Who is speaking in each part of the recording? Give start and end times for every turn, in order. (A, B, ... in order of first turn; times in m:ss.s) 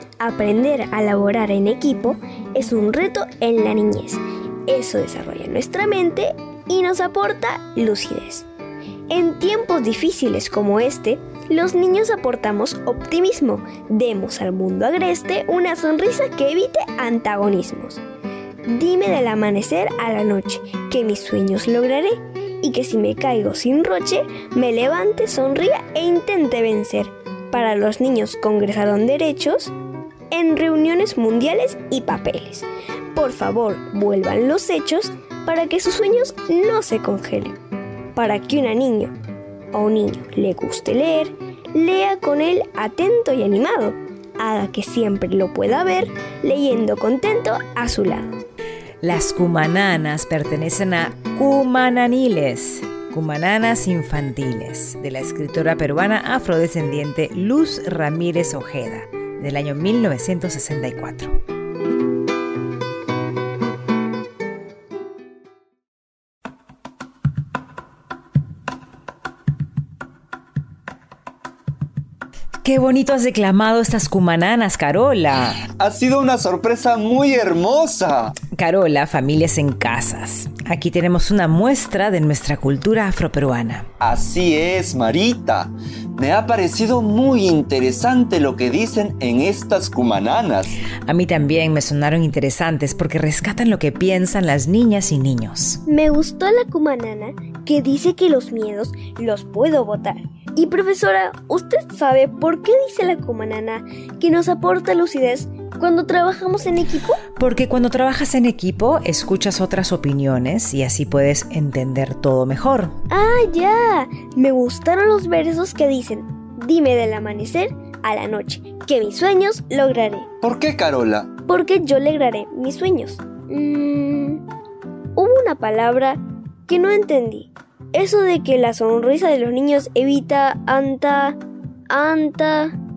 0:00.2-0:08.5 A
0:09.1-0:18.0 A
0:18.7-0:29.7 A
0:30.3-0:37.6 A
0:38.2-0:39.1 A
0:39.7-0:48.4 A
0:49.0-1:01.4 B
1:12.6-1:15.6 B
1:15.8-1:18.3 C
1:18.5-1:23.9 B
1:24.0-1:30.8 C
1:31.1-1:35.8 B
1:35.9-1:47.2 A
1:47.4-1:53.0 B
1:53.1-2:00.3 A
2:00.4-2:01.3 C
2:01.5-2:04.4 A
2:05.2-2:11.4 A
2:11.9-2:12.8 A